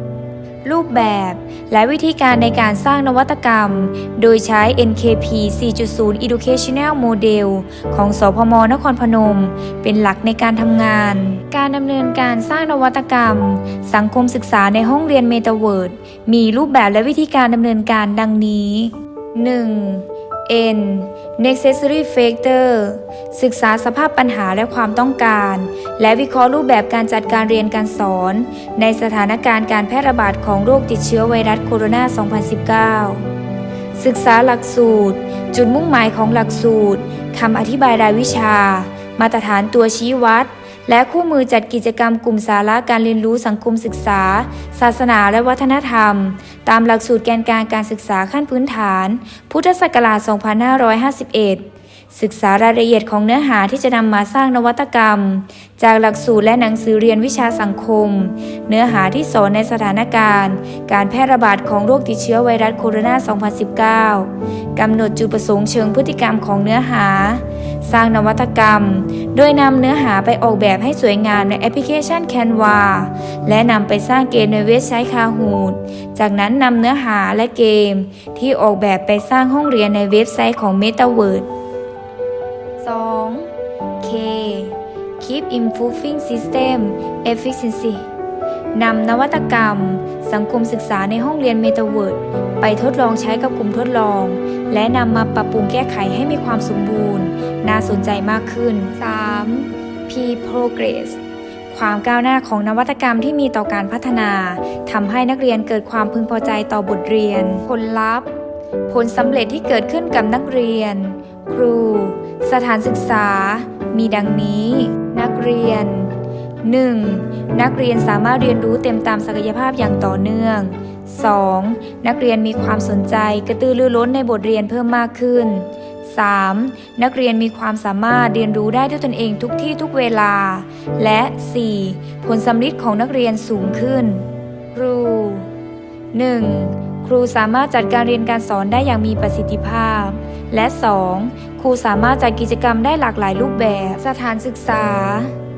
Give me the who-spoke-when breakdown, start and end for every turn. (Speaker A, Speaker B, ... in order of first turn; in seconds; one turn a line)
Speaker A: 0.7-33.3
Speaker A: 34.0-81.5
Speaker A: 82.8-83.5
Speaker A: 84.0-88.1
Speaker A: 88.7-108.3
Speaker A: 108.9-135.5
Speaker A: 136.1-145.3